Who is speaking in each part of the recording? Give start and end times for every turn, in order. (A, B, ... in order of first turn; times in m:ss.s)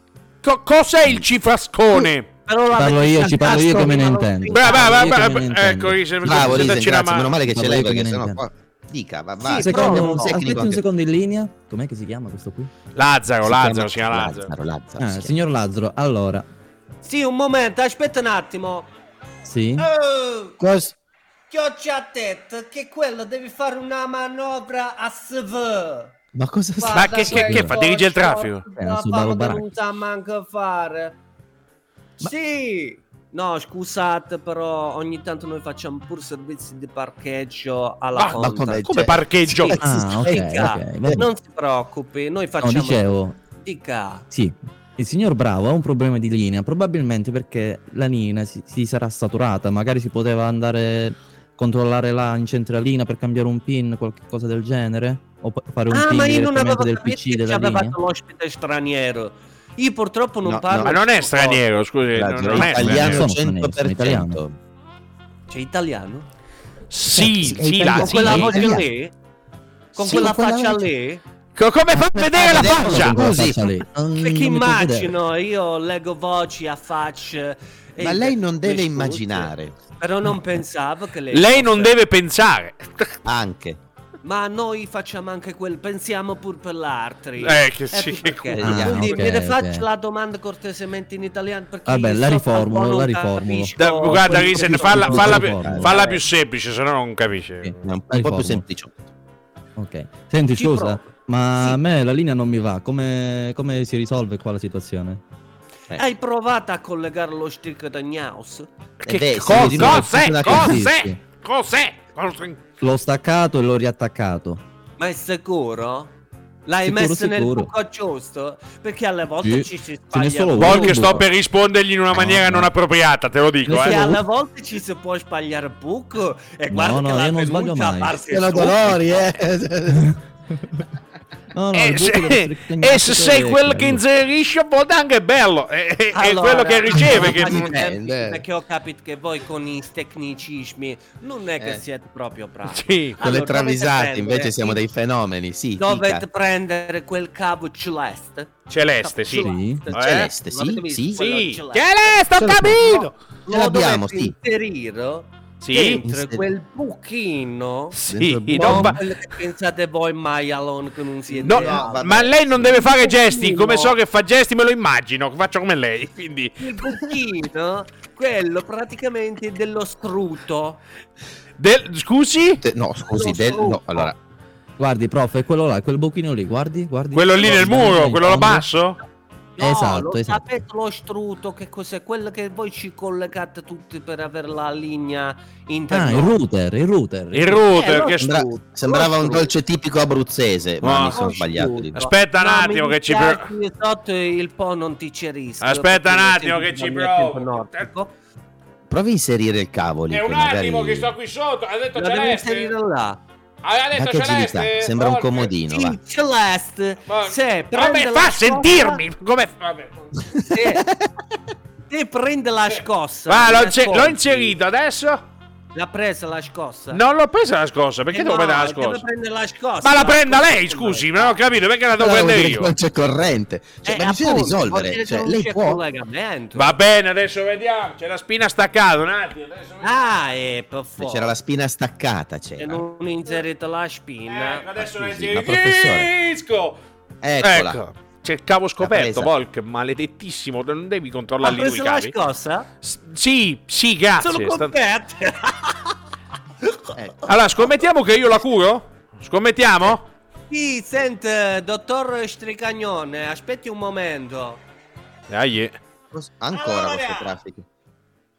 0:00.4-0:02.3 A
0:02.5-0:05.3 B
0:02.7-0:06.7 C
0:04.5-0:07.3 A
0:06.2-0:10.8 D
0:07.4-0:08.4 C
0:09.4-0:10.5 B
0:09.6-0:12.7 C
0:13.0-0:14.5 A
0:13.4-0:15.3 D
0:15.0-0:16.5 C
0:17.0-0:18.9 B
0:19.4-0:19.9 C
0:19.8-0:20.6 B
0:20.6-0:21.0 D
0:21.5-0:26.1 B
0:26.3-0:27.6 D
0:26.8-0:31.2 B
0:26.9-0:28.6 A
0:28.8-0:29.6 C
0:32.2-0:39.0 B
0:38.2-0:39.8 A
0:38.4-0:40.4 D
0:39.7-0:44.2 B
0:39.8-0:41.3 C
0:42.6-0:43.4 C
0:44.3-0:58.0 C
0:55.9-1:01.6 B
1:00.4-1:00.9 D
1:00.8-1:03.2 A
1:02.2-1:04.6 D
1:02.7-1:04.4 C
1:05.5-1:06.3 B
1:06.9-1:08.7 A
1:07.2-1:08.9 D
1:07.9-1:09.1 B
1:09.9-1:11.2 B
1:10.0-1:10.9 D
1:11.6-1:13.4 A
1:12.1-1:13.6 D
1:12.5-1:15.2 C
1:14.2-1:21.9 B
1:18.0-1:19.8 D
1:21.3-1:23.2 A
1:23.2-1:23.8 D
1:24.2-1:36.2 B
1:27.4-1:28.6 A
1:28.6-1:29.2 D
1:28.6-1:29.9 C
1:31.9-1:33.7 C
1:33.8-1:37.8 A
1:34.3-1:36.0 C
1:35.1-1:35.9 D
1:37.6-1:38.6 C
1:37.8-1:39.0 D
1:39.8-1:45.2 C
1:40.6-1:41.8 B
1:46.0-1:48.7 B
1:49.0-1:52.6 A
1:49.1-1:50.9 D
1:49.5-1:51.2 C
1:52.8-1:54.6 C
1:55.0-1:56.1 B
1:56.7-2:01.0 B
1:56.8-1:57.7 C
1:59.4-2:01.3 C
2:00.6-2:04.0 A
2:02.1-2:02.7 C
2:03.7-2:04.2 C
2:03.8-2:08.9 B
2:06.7-2:08.2 C
2:08.3-2:10.1 D
2:09.9-2:10.6 C
2:11.5-2:14.0 C
2:11.7-2:17.7 A
2:16.1-2:24.8 B
2:17.0-2:18.4 D
2:22.7-2:23.2 A
2:23.2-2:26.2 D
2:25.8-2:32.1 B
2:28.7-2:30.3 A
2:29.3-2:29.8 C
2:29.9-2:31.2 D
2:31.2-2:33.1 A
2:32.4-2:34.4 D
2:33.5-2:38.0 B
2:35.6-2:36.0 A
2:36.0-2:36.5 D
2:37.9-2:39.0 A
2:38.1-2:39.0 D
2:38.6-2:44.0 B
2:41.4-2:42.8 D
2:41.4-2:47.0 A
2:46.6-2:50.8 B
2:51.6-2:52.6 A
2:52.6-2:54.2 D
2:53.2-2:54.1 B
2:54.8-2:58.7 C
2:57.1-2:59.0 A
2:59.6-3:06.4 B
2:59.6-3:00.5 C
3:05.9-3:07.6 C
3:07.3-3:08.3 A
3:07.7-3:09.5 B
3:08.2-3:12.0 D
3:10.8-3:11.3 A
3:11.1-3:18.1 B
3:12.0-3:13.5 A
3:15.6-3:17.9 A
3:18.9-3:21.1 D
3:20.1-3:22.7 A
3:22.0-3:23.2 B
3:23.6-3:25.5 A
3:23.9-3:26.0 D
3:25.7-3:29.0 B
3:27.1-3:30.1 A
3:30.5-3:30.9 B
3:30.6-3:31.1 D
3:31.9-3:34.6 B
3:33.3-3:35.2 A
3:35.8-3:37.0 B
3:36.9-3:39.0 A
3:38.1-3:41.4 B
3:39.8-3:42.7 A
3:42.0-3:45.8 D
3:43.8-3:46.8 B
3:46.6-3:50.1 A
3:49.8-3:51.3 B
3:51.0-3:52.8 D
3:52.6-3:54.7 B
3:54.3-3:56.8 A
3:54.8-3:56.1 D
3:57.2-3:57.8 D
3:57.4-4:02.2 A
3:58.8-3:59.3 D
4:01.4-4:02.7 B
4:02.8-4:04.7 A
4:04.2-4:05.9 B
4:07.0-4:07.9 D
4:07.3-4:10.1 A
4:10.5-4:14.6 B
4:15.3-4:15.8 A
4:16.1-4:17.7 D
4:16.5-4:17.4 B